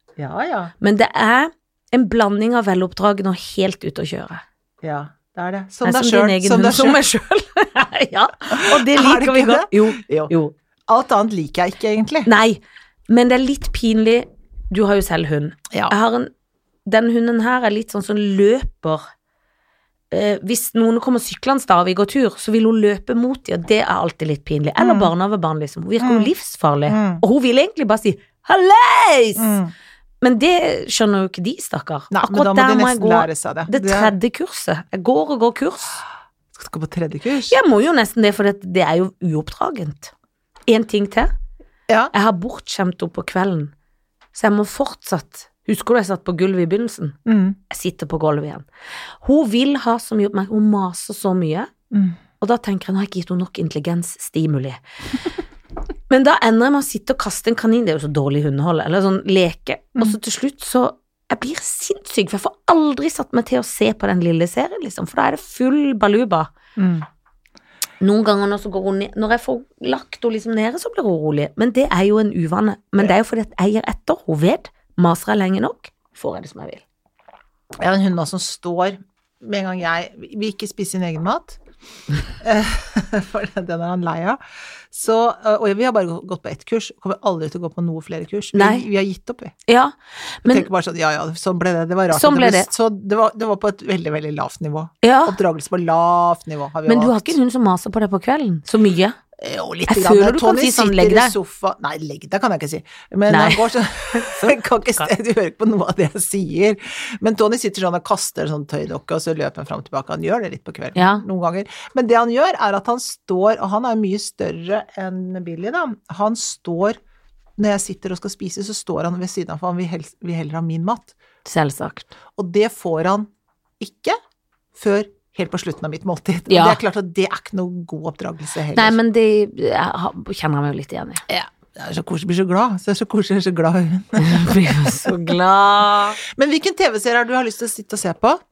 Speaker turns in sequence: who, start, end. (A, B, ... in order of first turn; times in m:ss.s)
0:00.2-0:00.7 A
0:00.8-0:04.4 B
0:04.8-0:07.0 A
0:05.8-0:10.5 B
0:08.6-0:10.3 A
0:10.9-0:12.3 A
0:12.3-0:16.3 B
0:16.9-0:19.0 B
0:20.1-0:29.6 B
0:24.8-0:25.1 A
0:26.0-0:26.3 A
0:26.9-0:27.2 A
0:29.4-0:29.7 A
0:30.2-0:36.0 B
0:32.1-0:34.2 A
0:36.5-0:37.6 A
0:37.5-0:40.1 B
0:40.7-0:41.3 B
0:42.1-0:43.7 B
0:44.3-0:47.2 B
0:47.3-0:47.6 A
0:47.7-0:48.7 B
0:49.2-0:51.7 B
0:51.9-0:52.2 A
0:52.4-0:54.8 B
0:56.1-1:06.5 B
1:06.8-1:07.1 A
1:08.0-1:16.8 B
1:17.8-1:21.6 A
1:22.4-1:24.4 A
1:24.9-1:29.5 A
1:28.5-1:28.8 B
1:29.7-1:30.7 B
1:30.5-1:37.4 A
1:32.1-1:32.7 B
1:35.0-1:35.4 B
1:36.9-1:39.2 B
1:39.4-1:57.0 A
1:39.9-1:41.4 B
1:43.3-1:44.7 B
1:51.0-1:51.2 B
1:57.6-2:01.1 A
2:01.4-2:02.1 B
2:02.4-2:03.3 A
2:03.8-2:04.2 A
2:04.8-2:09.0 A
2:06.5-2:06.8 B
2:08.7-2:11.2 B
2:11.3-2:15.4 A
2:14.2-2:16.2 B
2:16.2-2:18.4 A